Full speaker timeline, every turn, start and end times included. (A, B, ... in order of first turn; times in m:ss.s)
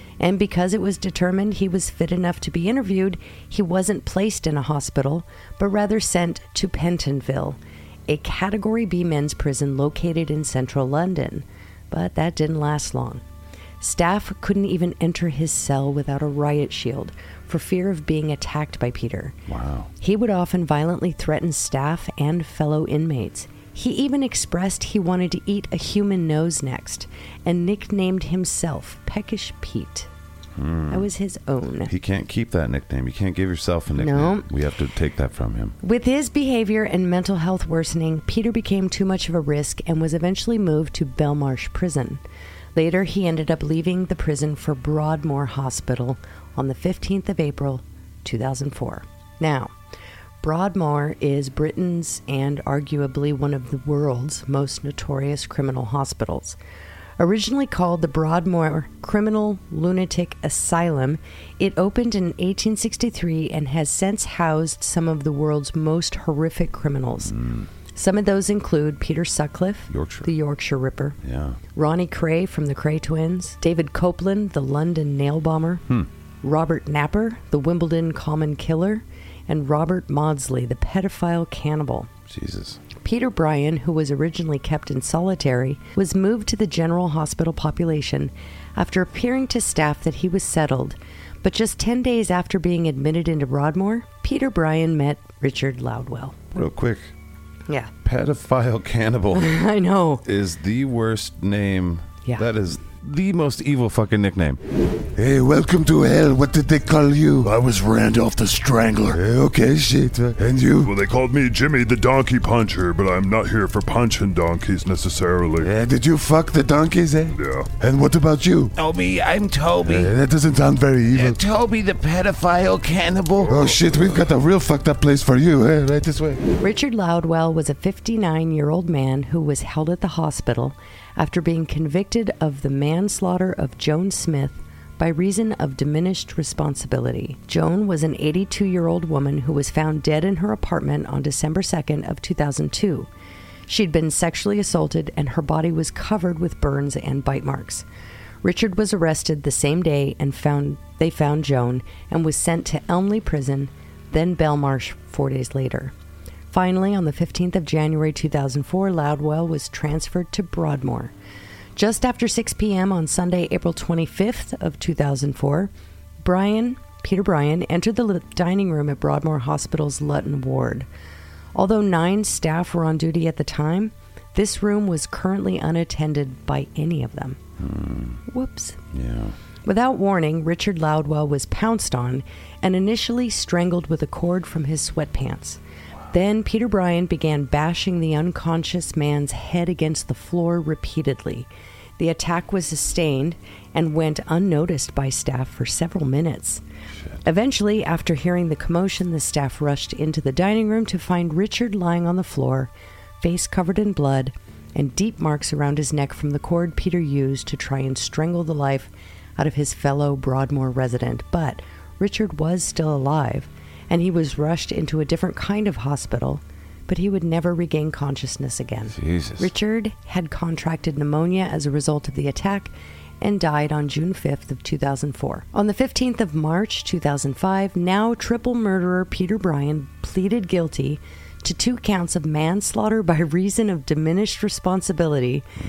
0:00.2-0:13.2 A
0:13.8-0:19.4 A
0:19.5-0:19.9 B
0:20.0-0:30.1 A
0:30.6-0:31.1 B
0:30.9-0:31.9 A
0:31.9-0:35.8 B
0:34.0-0:34.5 A
0:35.8-0:42.2 A
0:42.8-0:49.7 A
0:50.4-0:56.6 A
0:57.2-1:07.3 A
1:07.3-1:07.7 B
1:07.9-1:11.2 A
1:09.9-1:10.3 B
1:11.2-1:11.6 B
1:11.7-1:15.8 A
1:16.4-1:22.1 A
1:22.3-1:22.8 B
1:23.0-1:36.4 A
1:36.5-1:37.1 B
1:38.0-1:39.5 B
1:39.3-1:40.2 A
1:40.2-1:44.6 B
1:45.2-1:51.0 C
1:50.8-1:55.7 D
1:55.6-1:58.7 C
1:57.3-1:57.7 D
1:58.8-2:00.1 E
1:59.9-2:01.4 C
2:01.1-2:03.5 E
2:03.4-2:06.4 C
2:06.6-2:23.1 A
2:23.7-2:27.8 A
2:28.4-2:35.9 A
2:36.5-2:41.1 A
2:41.8-2:50.9 A
2:51.6-2:57.4 A
2:57.6-2:58.2 B
2:58.3-2:58.8 A
2:58.9-2:59.4 B
2:59.6-3:05.6 A
3:06.1-3:16.6 A
3:17.2-3:55.5 A
3:38.9-3:39.5 B